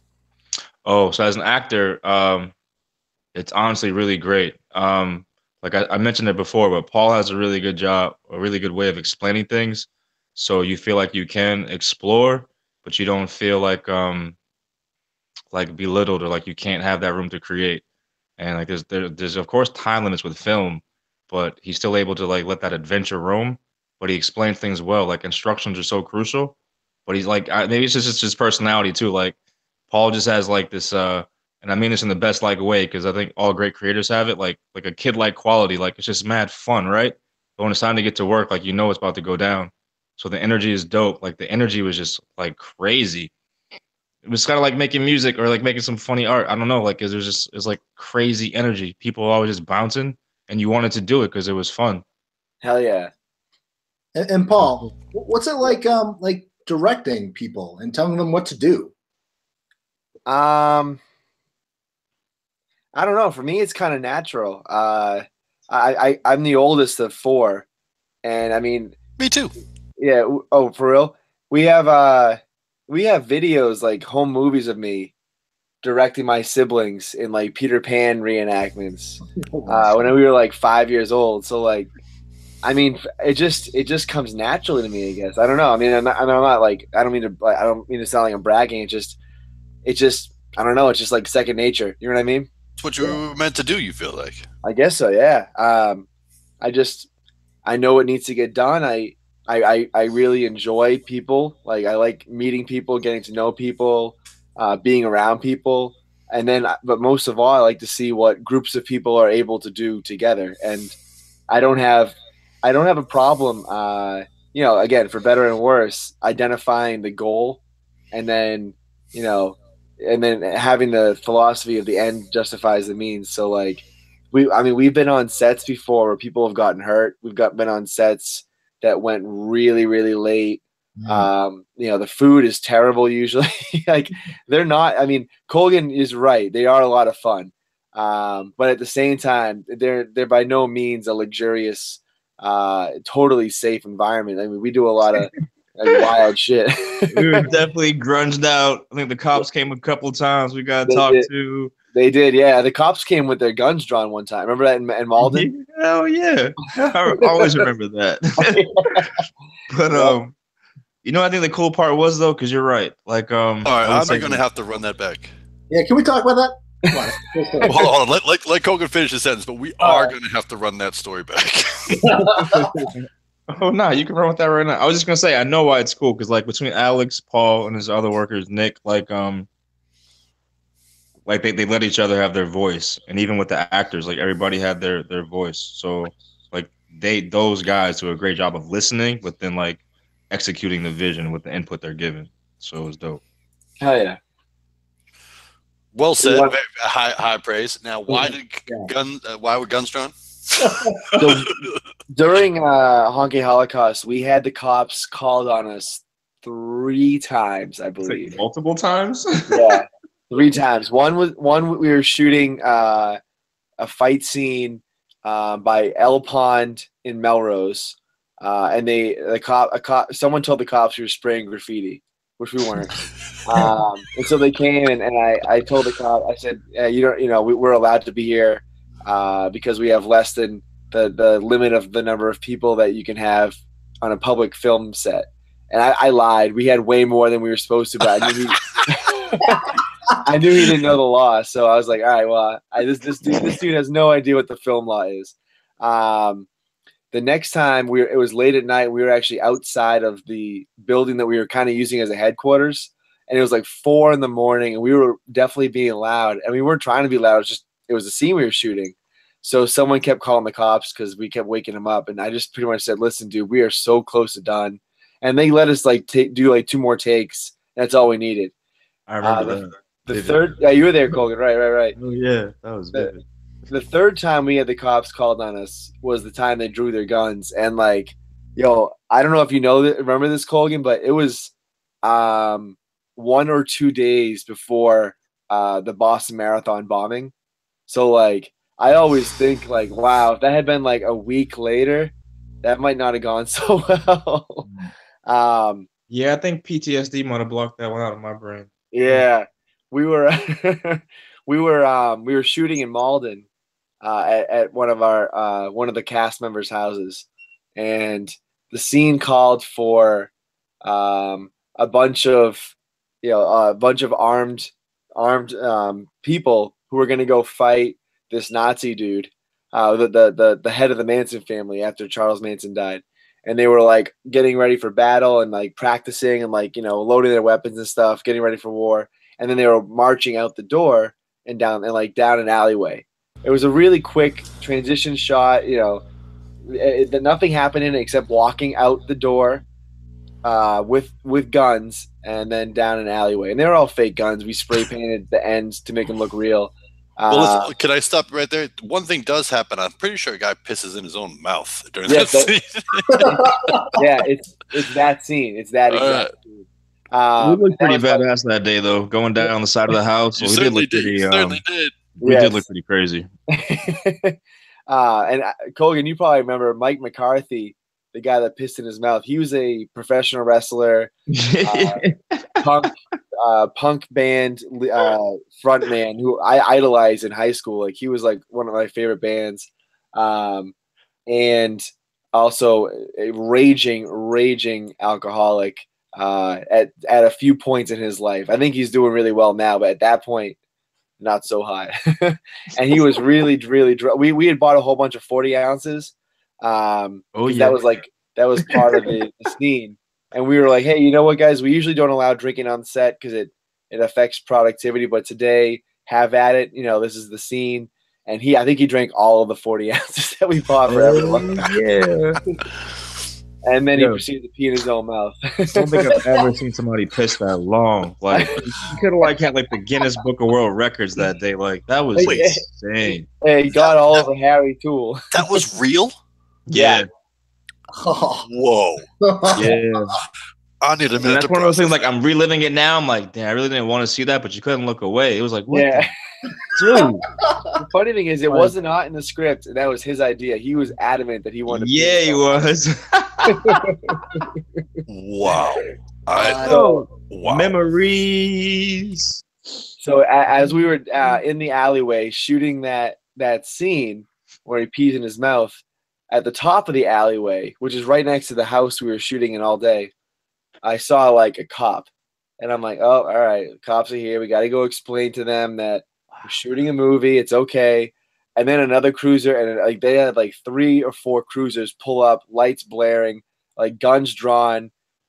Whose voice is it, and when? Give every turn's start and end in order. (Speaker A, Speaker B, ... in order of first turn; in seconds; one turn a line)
Speaker A: 0.8-2.5
Speaker A: 3.3-14.4
Speaker A: 15.5-17.8
Speaker A: 18.4-29.4
Speaker A: 29.9-43.3
Speaker A: 44.2-52.0
Speaker B: 52.6-53.1
Speaker C: 54.1-58.9
Speaker B: 60.3-61.0
Speaker B: 62.9-67.7
Speaker B: 68.2-69.0
Speaker D: 69.2-69.5
Speaker B: 70.0-75.1
Speaker B: 75.8-81.9
Speaker C: 79.4-80.1
Speaker B: 82.6-89.2
Speaker B: 89.8-92.5
Speaker D: 92.8-94.5
Speaker B: 94.6-96.1
Speaker B: 96.6-97.1
Speaker B: 97.6-111.0
Speaker B: 111.5-117.6
Speaker B: 118.1-147.5
Speaker C: 131.0-131.3
Speaker A: 147.1-151.7
Speaker B: 150.9-151.3
Speaker B: 151.9-155.5
Speaker A: 155.2-159.1
Speaker B: 158.4-159.0
Speaker A: 159.7-160.3
Speaker A: 161.0-164.4
Speaker D: 163.6-165.3
Speaker C: 165.7-167.9
Speaker B: 166.9-167.7
Speaker D: 167.6-172.1
Speaker B: 169.8-170.1
Speaker C: 172.0-172.7
Speaker B: 172.3-172.9
Speaker A: 172.9-179.5
Speaker A: 181.3-193.2
Speaker B: 193.8-194.2
Speaker D: 195.9-200.9
Speaker B: 196.2-196.6
Speaker C: 200.6-201.0
Speaker B: 201.2-201.5
Speaker B: 202.1-208.4
Speaker A: 208.1-209.8
Speaker B: 209.5-213.2
Speaker B: 213.8-222.9
Speaker B: 223.4-239.7
Speaker B: 240.2-246.5
Speaker B: 247.1-268.5
Speaker A: 269.1-270.5
Speaker B: 269.2-272.0
Speaker A: 272.0-273.2
Speaker B: 273.7-281.5
Speaker B: 282.0-287.3
Speaker B: 287.9-294.7
Speaker B: 295.2-295.9
Speaker A: 296.1-299.2
Speaker B: 298.9-303.5
Speaker B: 304.0-310.3
Speaker B: 310.8-336.0
Speaker B: 336.6-339.6
Speaker B: 340.4-347.7
Speaker D: 347.3-353.5
Speaker B: 352.1-352.5
Speaker C: 353.1-354.0
Speaker B: 353.9-358.3
Speaker D: 355.9-356.3
Speaker A: 357.4-361.6
Speaker D: 360.4-361.9
Speaker A: 362.1-363.3
Speaker B: 362.2-362.6
Speaker B: 363.5-364.4
Speaker B: 364.9-372.1
Speaker A: 371.3-372.7
Speaker B: 372.6-380.7
Speaker B: 381.3-390.6
Speaker B: 391.2-411.6
Speaker A: 397.4-397.8
Speaker A: 398.7-399.1
Speaker A: 410.9-412.4
Speaker C: 411.1-411.5
Speaker B: 413.6-416.1
Speaker A: 413.9-414.2
Speaker A: 415.7-423.3
Speaker B: 418.3-418.7
Speaker B: 422.2-422.6
Speaker B: 423.4-425.6
Speaker D: 425.3-426.1
Speaker A: 426.7-427.1
Speaker B: 426.7-427.0
Speaker C: 427.9-428.5
Speaker D: 428.5-429.1
Speaker C: 429.2-429.8
Speaker A: 429.6-430.2
Speaker D: 430.8-432.1
Speaker A: 431.2-436.1
Speaker B: 435.7-436.1
Speaker A: 436.7-437.3
Speaker C: 436.9-437.7
Speaker B: 437.8-442.6
Speaker A: 441.7-443.8
Speaker B: 443.5-444.5
Speaker D: 445.1-446.7
Speaker C: 446.3-446.9
Speaker A: 446.6-449.4
Speaker B: 446.7-447.0
Speaker D: 447.3-447.7
Speaker B: 450.0-460.1
Speaker B: 460.8-462.1
Speaker B: 462.6-474.9